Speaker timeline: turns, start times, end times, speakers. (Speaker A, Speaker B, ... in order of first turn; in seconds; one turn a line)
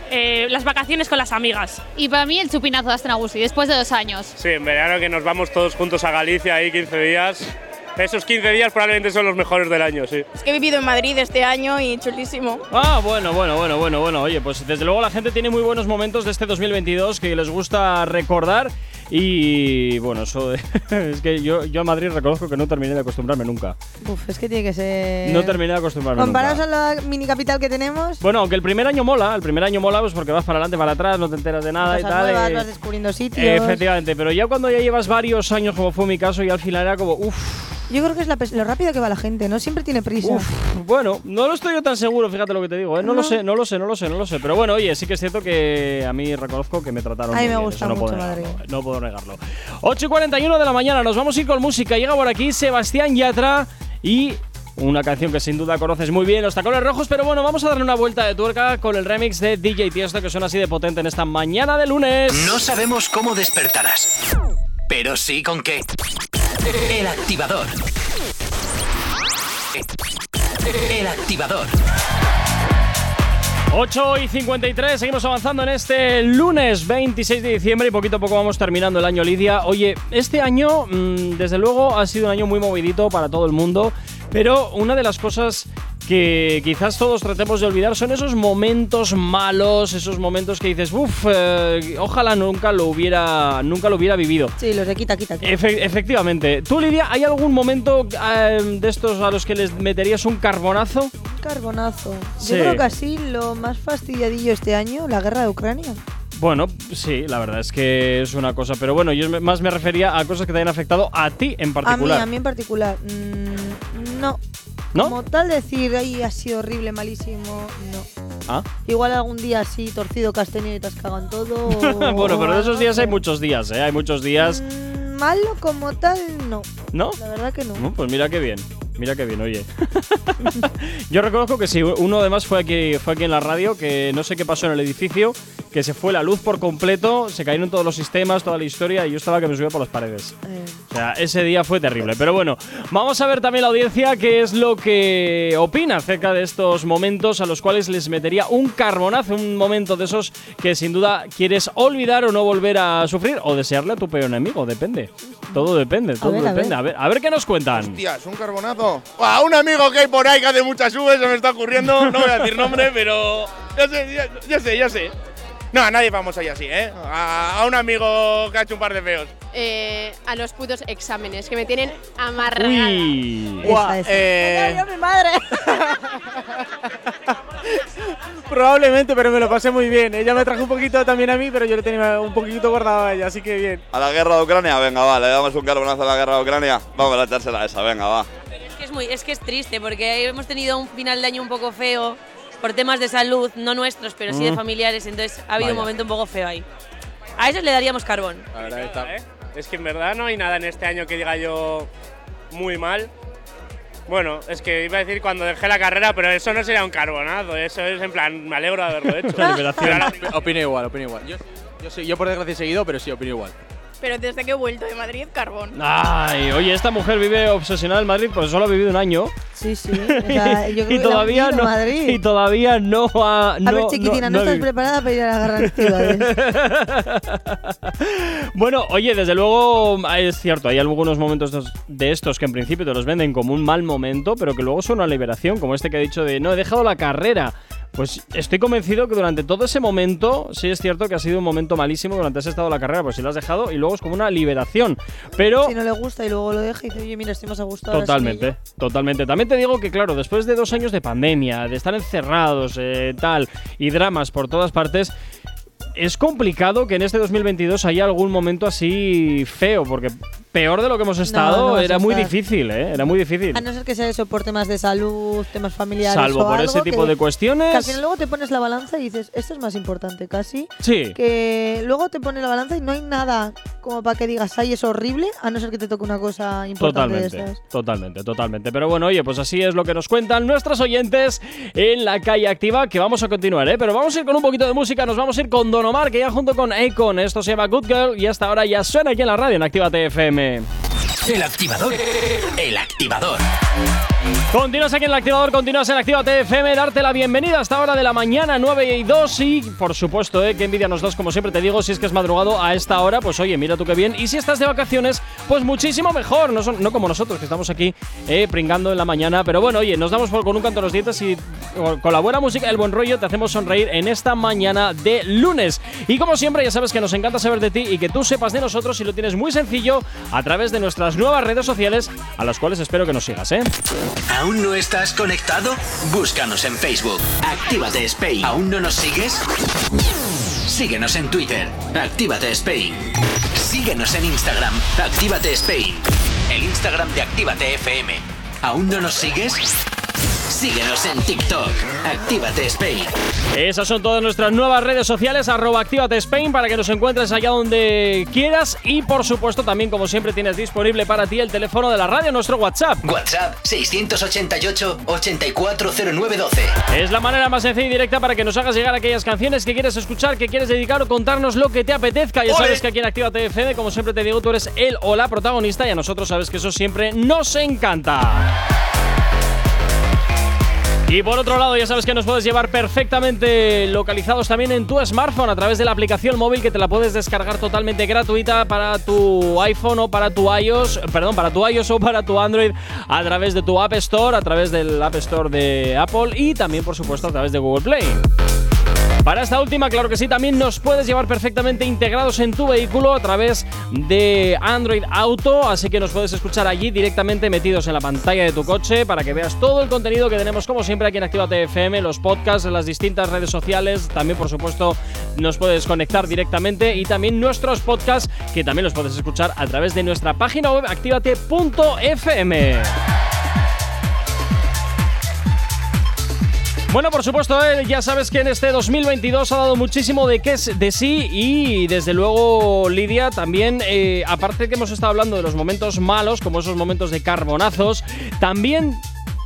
Speaker A: 0.1-4.3
Speaker B: 4.4-10.2
Speaker C: 10.4-12.6
Speaker D: 12.7-23.8
Speaker E: 24.0-25.6
Speaker D: 25.2-26.6
Speaker E: 26.1-28.2
Speaker D: 28.2-32.7
Speaker E: 31.8-33.8
Speaker D: 33.4-37.8
Speaker E: 37.9-40.5
Speaker D: 40.2-62.6
Speaker E: 43.0-43.4
Speaker E: 47.3-48.6
Speaker F: 62.3-64.1
Speaker F: 64.9-65.8
Speaker F: 66.9-67.8
Speaker F: 70.9-71.8
Speaker D: 73.7-94.5
Speaker E: 94.6-95.6
Speaker D: 95.4-101.1
Speaker E: 101.3-106.0
Speaker D: 102.4-102.9
Speaker D: 106.4-112.3
Speaker E: 111.8-114.4
Speaker E: 114.9-118.1
Speaker E: 118.8-123.2
Speaker D: 121.7-124.6
Speaker E: 124.4-127.8
Speaker D: 126.9-127.2
Speaker D: 127.8-140.4
Speaker E: 140.4-140.8
Speaker D: 140.9-158.0
Speaker E: 156.2-156.8
Speaker G: 157.8-165.1
Speaker G: 165.7-169.3
Speaker H: 169.5-173.1
Speaker D: 172.6-173.8
Speaker E: 173.6-174.5
Speaker I: 173.7-174.8
Speaker I: 178.5-183.8
Speaker J: 183.9-188.3
Speaker K: 188.7-196.7
Speaker D: 194.3-194.6
Speaker D: 195.6-195.9
Speaker K: 197.4-198.5
Speaker L: 198.5-199.1
Speaker B: 198.9-201.9
Speaker B: 202.5-203.1
Speaker B: 204.1-209.4
Speaker D: 209.3-210.2
Speaker E: 209.3-210.1
Speaker L: 210.1-213.6
Speaker C: 214.0-215.8
Speaker D: 215.7-219.3
Speaker E: 219.6-222.2
Speaker D: 220.0-224.7
Speaker E: 223.6-226.3
Speaker D: 225.6-245.8
Speaker E: 245.4-248.5
Speaker D: 247.9-255.1
Speaker D: 256.0-263.6
Speaker E: 261.2-262.3
Speaker E: 263.5-267.1
Speaker D: 266.0-268.0
Speaker E: 267.7-277.6
Speaker D: 270.8-271.2
Speaker D: 276.8-290.7
Speaker F: 291.3-292.0
Speaker F: 292.6-293.4
Speaker D: 294.5-323.7
Speaker F: 324.3-329.5
Speaker F: 330.7-339.7
Speaker F: 340.5-343.1
Speaker D: 343.5-353.0
Speaker F: 353.0-356.8
Speaker D: 356.9-368.5
Speaker D: 371.1-388.3
Speaker D: 389.2-413.0
Speaker D: 416.9-429.0